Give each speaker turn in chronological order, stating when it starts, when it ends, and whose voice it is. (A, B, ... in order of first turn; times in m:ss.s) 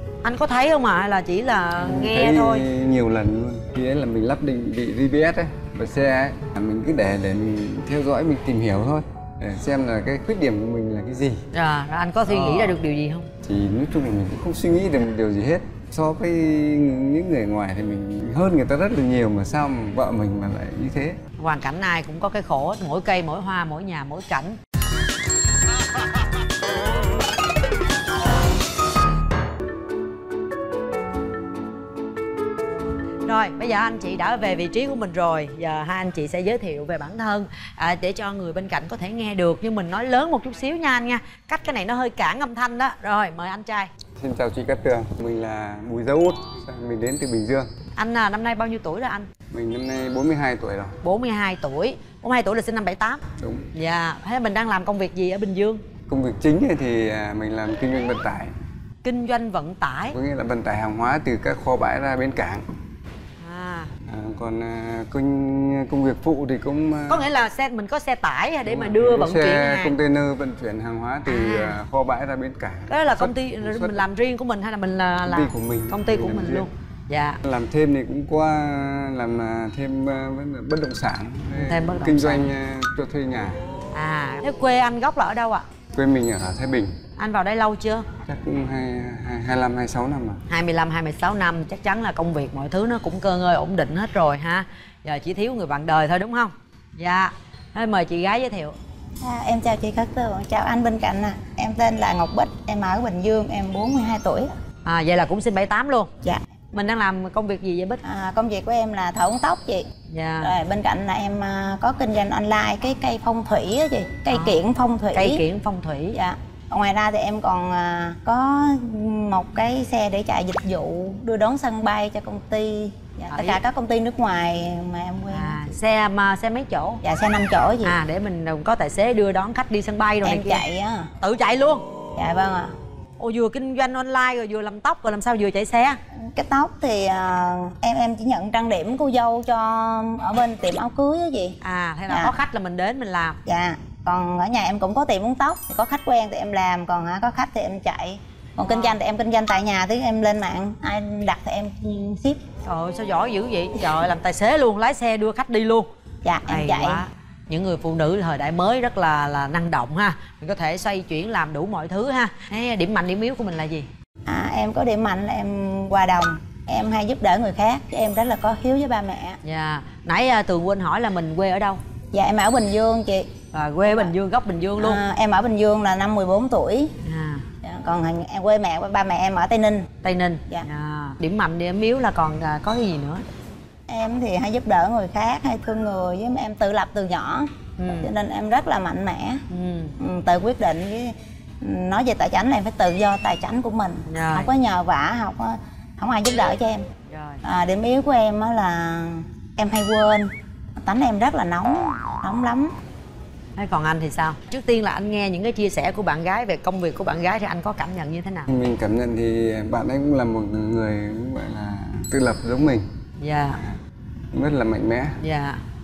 0:00.2-0:02.7 A
0:01.8-0:11.4 B
0:11.5-0:13.3 A
0:12.2-0:12.8 B
0:13.4-0:21.2 B
0:21.4-0:24.6 A
0:33.2-0:43.9 A
0:44.2-0:47.7 B
0:48.0-0:49.3 A
0:49.5-0:51.0 B
0:51.0-0:53.2 A
0:53.4-0:53.7 B
0:53.7-0:55.8 A
0:56.1-0:58.5 B
0:59.0-1:00.2 A
1:00.1-1:02.6 B
1:03.4-1:03.9 A
1:04.0-1:07.3 B
1:07.1-1:10.0 A
1:08.6-1:14.0 B
1:11.2-1:11.8 A
1:12.9-1:17.4 A
1:15.2-1:16.7 B
1:17.4-1:23.6 B
1:21.5-1:22.5 A
1:23.9-1:25.6 A
1:25.9-1:27.0 B
1:27.2-1:28.1 A
1:28.2-1:30.4 B
1:30.5-1:38.8 A
1:39.2-1:44.5 C
1:44.8-1:46.1 A
1:46.7-1:48.0 A
1:48.0-1:49.9 C
1:50.1-1:50.6 A
1:50.4-1:55.4 C
1:54.3-1:54.6 A
1:55.1-1:56.2 A
1:56.1-2:05.6 C
2:03.3-2:03.6 A
2:05.3-2:07.0 A
2:07.0-2:08.0 C
2:07.8-2:10.6 A
2:10.2-2:11.1 C
2:11.2-2:11.8 A
2:12.2-2:12.7 C
2:13.2-2:16.0 A
2:16.1-2:22.3 C
2:21.6-2:23.4 A
2:23.4-2:32.4 C
2:28.7-2:29.0 A
2:32.6-2:35.9 A
2:36.2-2:37.0 C
2:36.5-2:43.9 A
2:44.2-2:49.4 C
2:49.4-2:51.8 A
2:52.1-2:53.3 C
2:53.5-2:55.0 A
2:53.8-2:54.1 C
2:54.8-2:56.9 C
2:57.0-2:57.4 A
2:57.6-2:59.9 C
3:00.0-3:03.2 A
3:03.9-3:09.4 C
3:07.8-3:08.1 A
3:09.5-3:10.0 A
3:10.0-3:16.9 C
3:14.1-3:14.5 A
3:17.1-3:17.4 A
3:17.4-3:22.7 C
3:23.6-3:28.5 A
3:28.5-3:32.9 B
3:33.2-3:33.6 A
3:34.3-3:35.2 B
3:35.2-3:35.6 A